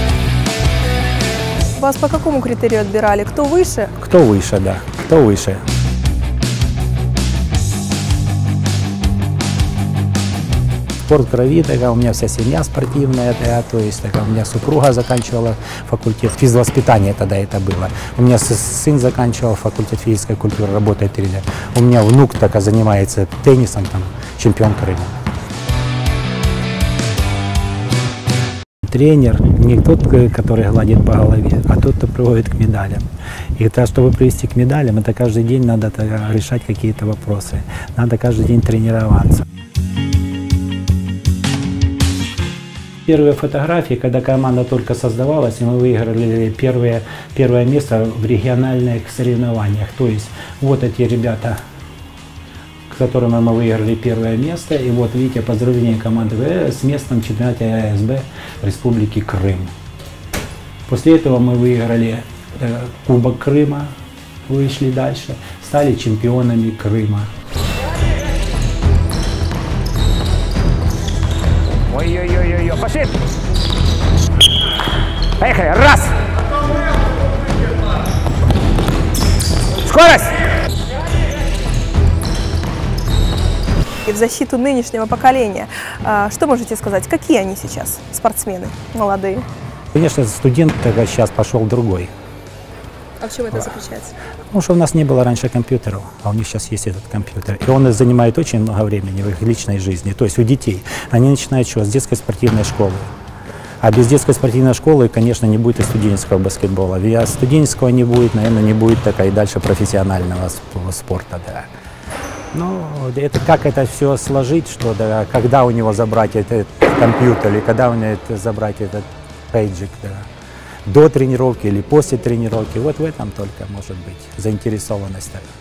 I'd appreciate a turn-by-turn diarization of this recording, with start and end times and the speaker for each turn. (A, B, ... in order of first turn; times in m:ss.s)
0:01.8-0:03.9 A
0:04.0-0:05.6 B
0:11.1-0:25.2 B
0:28.8-0:33.0 B
0:33.6-0:39.4 B
0:43.1-0:51.6 B
0:52.9-0:59.7 B
1:00.9-1:04.0 B
1:04.5-1:07.3 B
1:11.9-1:13.1 C
1:15.4-1:16.1 C
1:19.8-1:20.4 C
1:24.0-1:29.4 A
1:29.9-1:32.1 B
1:33.2-1:34.1 A
1:34.5-1:43.1 B
1:43.8-1:51.7 B
1:52.5-2:00.3 B
2:00.9-2:05.5 B